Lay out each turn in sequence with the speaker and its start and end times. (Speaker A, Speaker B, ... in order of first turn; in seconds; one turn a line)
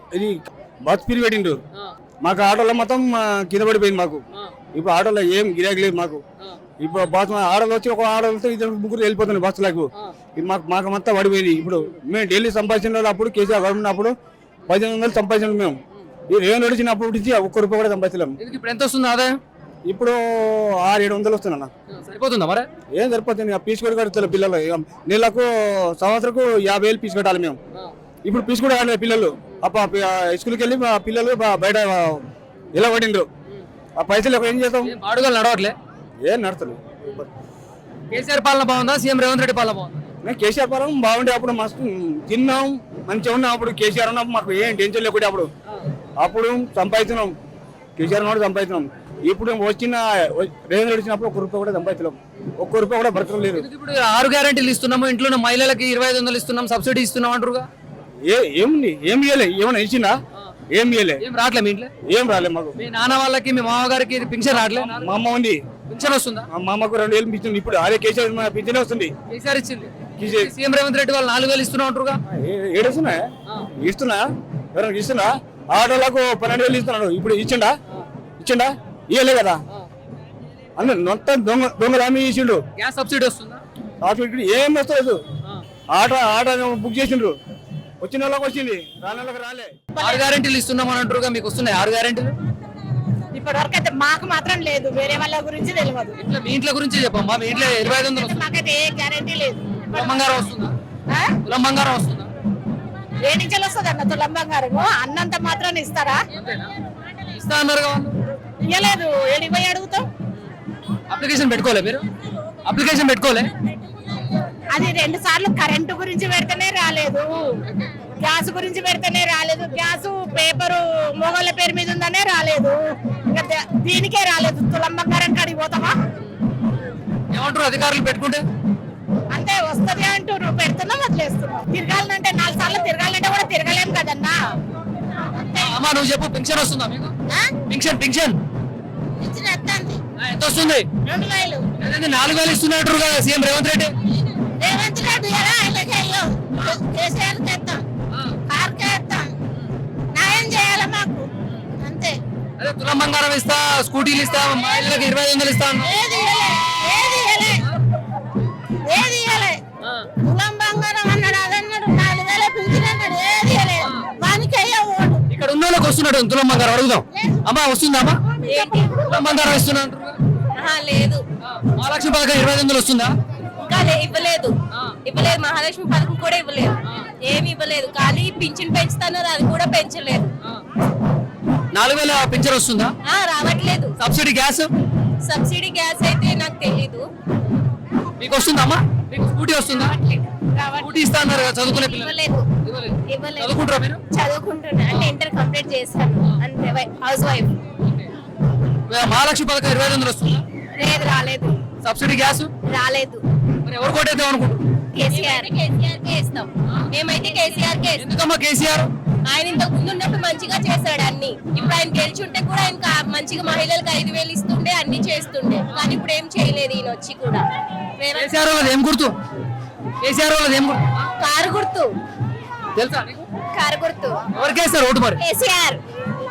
Speaker A: 0.1-1.6
Speaker A: 2.2-6.2
Speaker A: 6.8-14.2
Speaker A: 14.7-15.8
Speaker A: 16.3-18.4
Speaker B: 18.4-19.4
Speaker A: 19.9-21.7
Speaker B: 21.9-22.7
Speaker A: 22.9-27.6
Speaker A: 28.2-33.3
Speaker A: 34.0-34.9
Speaker B: 34.8-35.8
Speaker A: 36.2-37.3
Speaker B: 38.1-40.0
Speaker A: 40.2-45.5
Speaker A: 46.2-47.4
Speaker A: 48.0-53.7
Speaker B: 53.6-57.7
Speaker A: 58.2-60.2
Speaker A: 60.7-61.2
Speaker B: 61.2-61.9
Speaker A: 62.1-62.8
Speaker B: 62.8-65.0
Speaker A: 64.9-65.6
Speaker B: 65.9-66.5
Speaker A: 66.5-69.1
Speaker B: 69.3-72.2
Speaker A: 70.2-70.5
Speaker A: 72.3-73.3
Speaker A: 73.8-77.8
Speaker A: 78.4-79.6
Speaker A: 80.8-82.6
Speaker B: 82.8-83.6
Speaker A: 84.0-85.2
Speaker A: 85.9-87.4
Speaker A: 88.0-89.7
Speaker C: 90.0-90.2
Speaker B: 90.0-92.3
Speaker C: 93.3-96.2
Speaker B: 96.2-98.4
Speaker C: 97.5-100.2
Speaker B: 99.9-100.7
Speaker B: 101.4-102.3
Speaker C: 103.3-106.2
Speaker B: 106.4-106.7
Speaker B: 107.3-108.2
Speaker C: 108.7-110.1
Speaker B: 111.1-112.1
Speaker B: 112.7-113.5
Speaker C: 114.7-117.6
Speaker C: 118.2-126.0
Speaker B: 127.3-128.4
Speaker C: 129.3-134.4
Speaker C: 135.3-135.7
Speaker B: 135.6-137.1
Speaker B: 137.7-138.4
Speaker C: 139.2-140.0
Speaker B: 140.2-140.9
Speaker C: 141.1-141.7
Speaker B: 141.8-143.9
Speaker C: 144.6-147.8
Speaker C: 148.5-149.3
Speaker C: 150.1-151.3
Speaker C: 151.8-152.2
Speaker B: 152.6-155.9
Speaker C: 155.8-157.6
Speaker C: 158.8-159.6
Speaker C: 160.2-165.2
Speaker B: 163.8-164.1
Speaker B: 165.3-168.2
Speaker D: 168.5-168.9
Speaker B: 169.0-170.2
Speaker D: 170.6-171.2
Speaker B: 171.5-173.1
Speaker D: 173.6-180.3
Speaker B: 181.7-182.9
Speaker D: 183.0-183.9
Speaker B: 184.0-184.7
Speaker D: 185.2-187.1
Speaker B: 188.2-190.0
Speaker D: 190.1-192.5
Speaker B: 190.8-194.0
Speaker D: 193.1-197.6
Speaker B: 198.9-200.4
Speaker D: 200.8-201.6
Speaker B: 201.8-202.5
Speaker D: 202.7-203.2
Speaker B: 203.7-204.6
Speaker D: 204.9-208.0
Speaker B: 208.0-208.9
Speaker D: 209.3-217.5
Speaker D: 218.0-218.3
Speaker B: 218.1-219.2
Speaker B: 220.0-221.0
Speaker D: 221.2-221.9
Speaker B: 222.8-223.2
Speaker D: 223.5-224.2
Speaker B: 224.3-225.2
Speaker D: 225.2-225.8